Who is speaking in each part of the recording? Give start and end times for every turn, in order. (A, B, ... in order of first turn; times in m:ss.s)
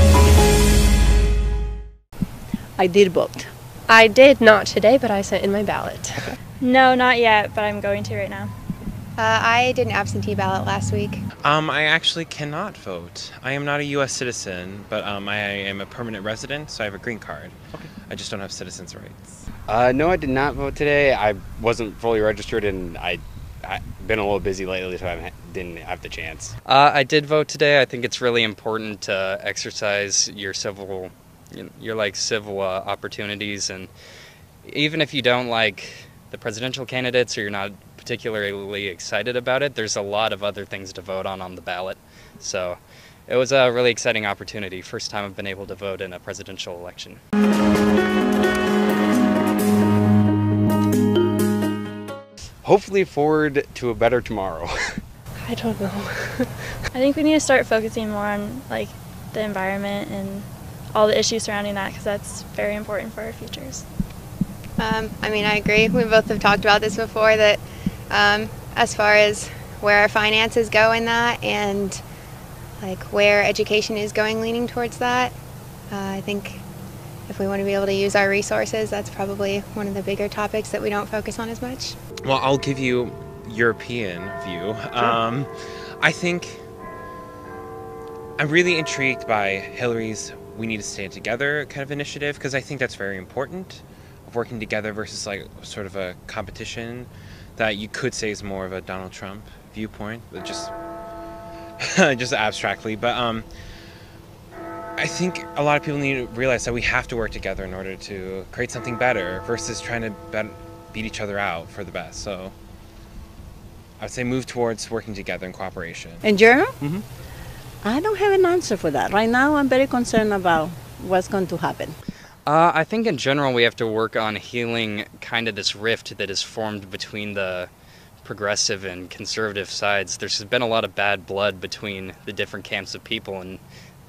0:02.8-0:03.5 A
0:03.9-0:06.3 B
0:06.6-0:08.5 C
0:09.2-0:11.2 D
0:11.4-0:17.6 E
0:18.1-0:19.2 E
0:19.7-0:26.5 F
0:26.6-0:33.9 G
0:34.6-0:47.2 G
0:52.6-0:55.0 F
0:55.4-0:56.8 B
0:56.9-1:03.9 C
1:04.8-1:12.0 D
1:12.8-1:15.3 D
1:15.9-1:16.6 D
1:17.3-1:22.0 D
1:22.2-1:26.6 E
1:28.4-1:40.7 E
1:41.8-1:43.5 E
1:45.0-1:52.5 E
1:54.0-1:56.2 E
1:56.2-1:56.7 A
1:57.8-2:02.0 A
2:02.4-2:07.7 G
2:08.2-2:13.6 G